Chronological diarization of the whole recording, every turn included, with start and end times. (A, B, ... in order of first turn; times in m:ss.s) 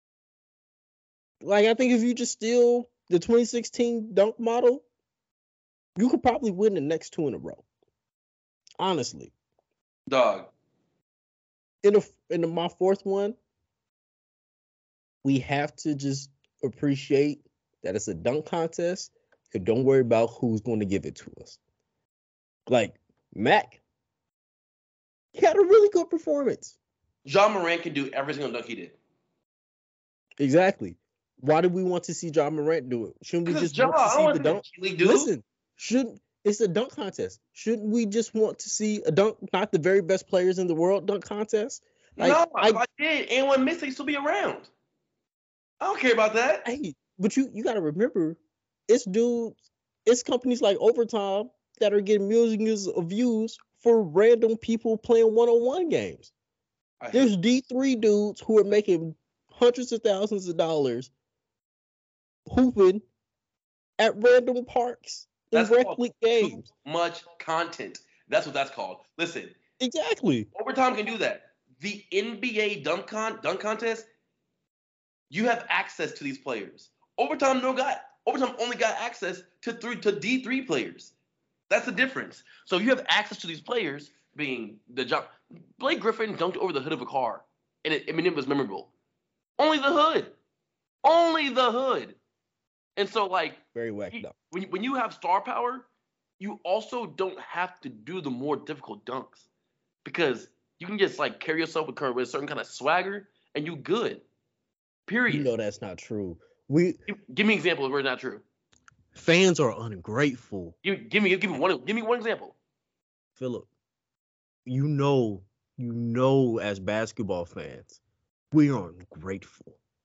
0:01.4-0:04.8 A
0:06.0-0:07.6 A
0:08.8-0:09.3 A
0:10.1-0:10.5 B
0:11.8-0:13.3 A
0:15.2-0:21.6 A
0:22.7-0:23.8 A
0:25.3-0:26.8 A
0:27.2-0:29.0 B
0:30.4-0:42.8 A
0:33.4-0:35.3 B
0:42.2-0:44.7 B
0:45.8-0:46.6 B
0:46.6-0:56.3 A
0:57.0-0:57.3 B
0:57.1-1:01.1 A
1:02.5-1:03.0 A
1:04.0-1:06.7 A
1:05.5-1:09.6 B
1:09.8-1:10.5 A
1:10.5-1:14.1 B
1:15.3-1:21.1 B
1:21.7-1:28.9 B
1:29.6-1:30.3 B
1:31.0-1:32.2 B
1:33.0-1:35.9 B
1:33.7-1:34.3 A
1:36.4-1:39.4 B
1:40.0-1:44.2 B
1:45.1-1:45.5 B
1:45.3-1:47.0 A
1:47.1-1:48.4 B
1:49.1-1:50.8 A
1:50.8-1:52.6 B
1:53.4-1:53.7 A
1:54.6-1:58.0 A
1:58.5-1:59.8 A